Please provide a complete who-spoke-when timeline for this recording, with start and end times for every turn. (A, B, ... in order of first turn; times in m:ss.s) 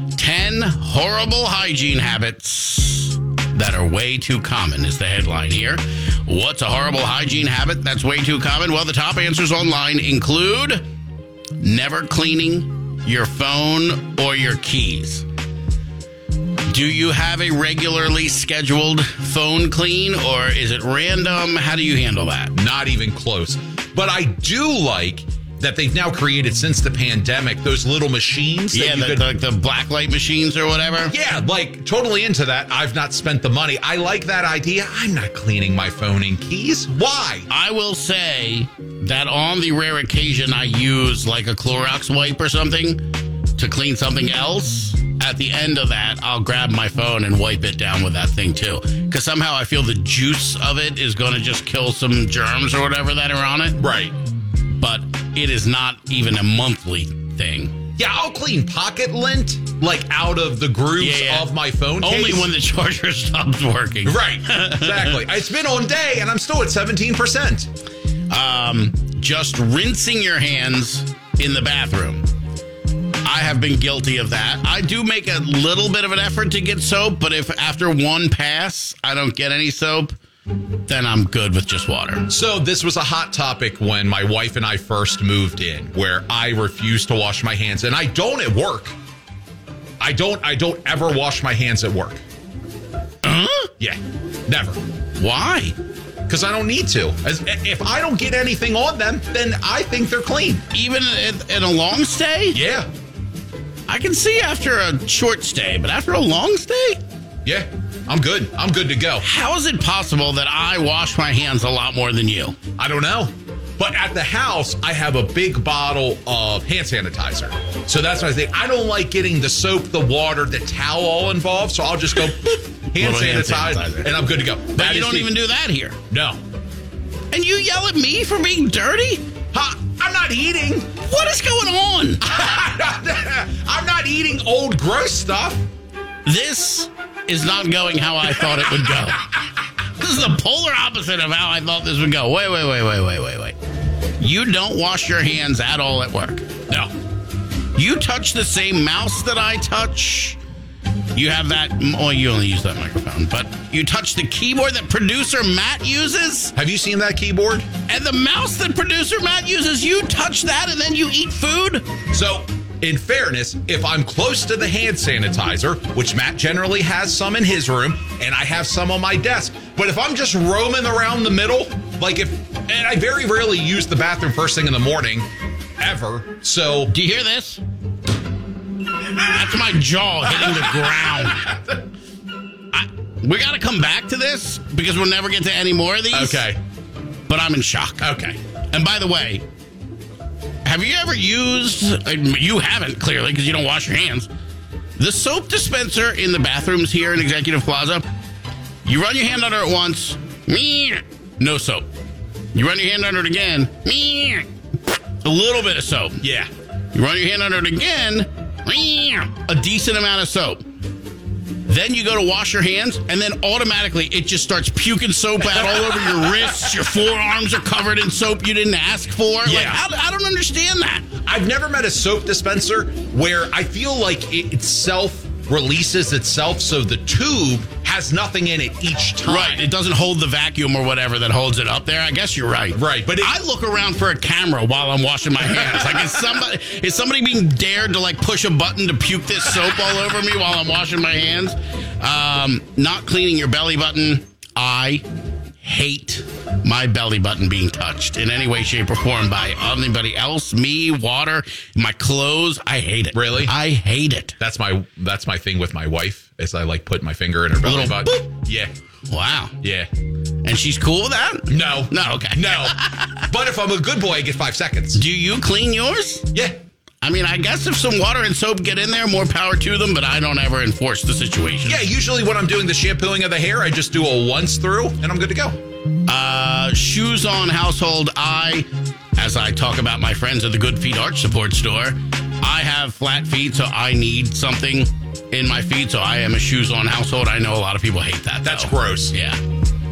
0:00.2-0:10.8 A
0:11.6-0:15.2 A
0:16.7-0:22.5 A
0:22.5-0:29.3 B
0:28.7-0:31.1 A
0:31.1-0:37.5 B
0:37.5-0:43.0 A
0:43.6-0:53.8 A
0:53.8-0:54.2 B
0:54.8-0:57.7 A
0:58.0-1:02.5 B
1:01.0-1:05.2 A
1:04.0-1:07.7 B
1:08.3-1:12.2 A
1:13.2-1:20.2 A
1:20.9-1:22.3 A
1:22.3-1:29.0 B
1:30.0-1:32.2 B
1:33.2-1:33.7 A
1:33.8-1:34.8 B
1:35.2-1:35.8 A
1:36.3-1:40.6 B
1:40.7-1:42.6 A
1:42.5-1:42.9 B
1:43.9-1:47.0 A
1:47.4-1:49.2 B
1:49.2-1:52.6 A
1:52.8-2:05.3 B
2:03.0-2:04.2 A
2:04.7-2:06.0 A
2:06.1-2:06.4 B
2:07.3-2:09.2 A
2:09.5-2:10.9 B
2:11.0-2:12.2 A
2:12.2-2:15.6 B
2:16.2-2:19.3 A
2:20.0-2:23.6 A
2:24.2-2:26.5 A
2:27.7-2:30.4 A
2:31.1-2:36.5 A
2:36.5-2:37.7 B
2:37.9-2:41.9 A
2:42.1-2:55.3 B
2:55.8-2:56.9 B
2:56.9-2:57.6 A
2:59.3-3:01.5 A
3:00.3-3:01.5 B
3:02.7-3:06.5 A
3:06.1-3:06.6 B
3:07.3-3:08.1 A
3:08.0-3:08.4 B
3:08.7-3:09.4 A
3:10.6-3:14.3 A
3:15.0-3:18.0 A
3:18.8-3:21.8 A
3:22.5-3:24.5 A
3:25.2-3:26.2 A
3:26.2-3:26.5 B
3:26.9-3:30.6 A
3:31.7-3:41.1 A
3:35.5-3:36.5 B
3:39.4-3:39.8 B
3:41.2-3:49.6 B
3:49.2-4:05.0 A
3:52.7-3:53.3 B
3:55.7-3:56.1 B
4:05.6-4:14.4 A
4:13.1-4:13.5 B
4:14.4-4:18.7 B
4:17.6-4:18.3 A
4:19.1-4:19.5 A
4:19.6-4:19.9 B
4:20.4-4:23.3 A
4:21.5-4:25.0 B
4:24.9-4:26.3 A
4:27.0-4:31.8 A
4:31.6-4:35.6 B
4:36.1-4:49.4 A
4:48.4-4:49.2 B